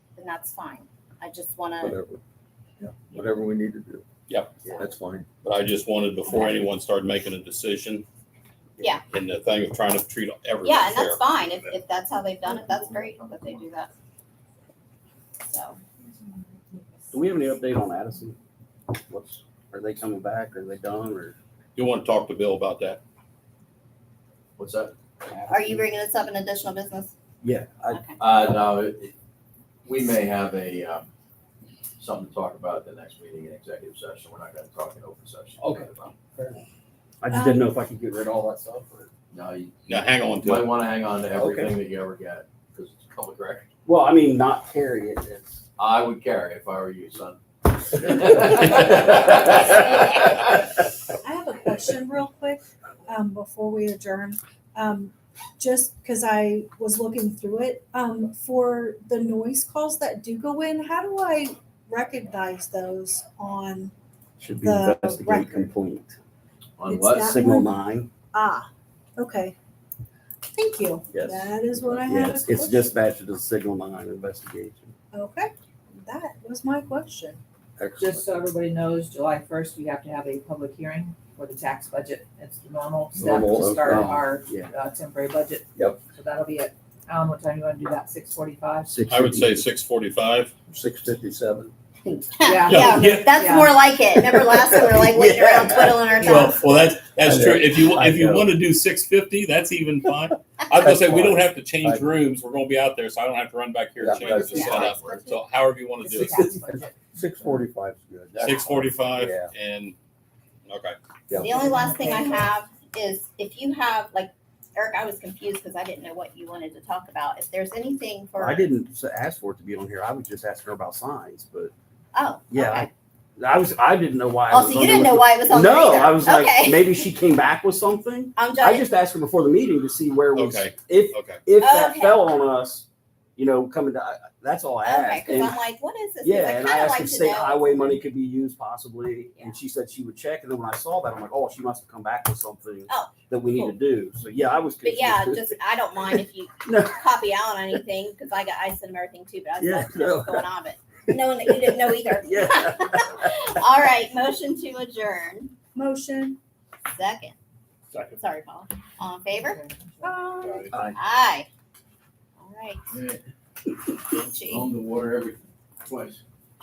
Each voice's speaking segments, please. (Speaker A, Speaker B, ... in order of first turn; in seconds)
Speaker A: 0.1-1.9, 8.8-9.0, 10.6-13.9, 15.4-15.8, 25.5-27.1, 27.9-28.1, 92.0-96.6, 104.5-104.9, 111.4-118.7, 122.1-122.9, 124.5-126.9, 128.3-128.8, 131.6-132.2, 134.8-138.0, 142.9-143.8, 144.8-155.5, 156.9-157.3, 158.1-161.5, 162.4-162.8, 164.1-164.7
Speaker B: 1.8-2.2, 2.8-4.0, 4.8-5.2, 90.8-91.7, 97.2-98.5, 100.8-102.1, 104.0-105.2, 106.2-106.6, 107.1-109.5, 111.3-111.5
Speaker C: 4.3-4.7, 5.4-8.0, 9.1-11.2, 21.8-23.0, 39.9-40.7, 89.1-90.5, 92.7-93.3, 96.2-106.4, 108.4-109.9, 110.7-111.0, 130.3-131.4
Speaker D: 17.1-18.4, 18.9-21.4, 27.4-28.0, 35.6-36.6, 37.2-39.1, 41.4-41.7, 43.9-45.6, 64.4-66.2, 67.2-68.1, 71.1-74.9, 77.8-78.2, 83.2-84.7, 88.9-89.6, 94.1-96.7, 118.4-121.7, 122.5-135.6, 136.2-147.0, 149.6-150.5, 151.1-153.3
Speaker E: 24.6-24.9, 28.2-29.1, 29.8-31.1, 32.0-36.1, 39.3-43.7, 45.8-47.4, 48.0-50.2, 66.8-67.3, 162.9-163.2, 164.4-166.2
Speaker F: 37.3-37.7, 51.2-63.9, 64.6-65.7, 66.9-67.8, 68.3-69.5, 70.5-72.9, 75.1-77.4, 155.7-156.4
Speaker G: 78.0-89.0, 92.4-93.8, 106.0-107.3, 111.4-112.5, 159.3-160.2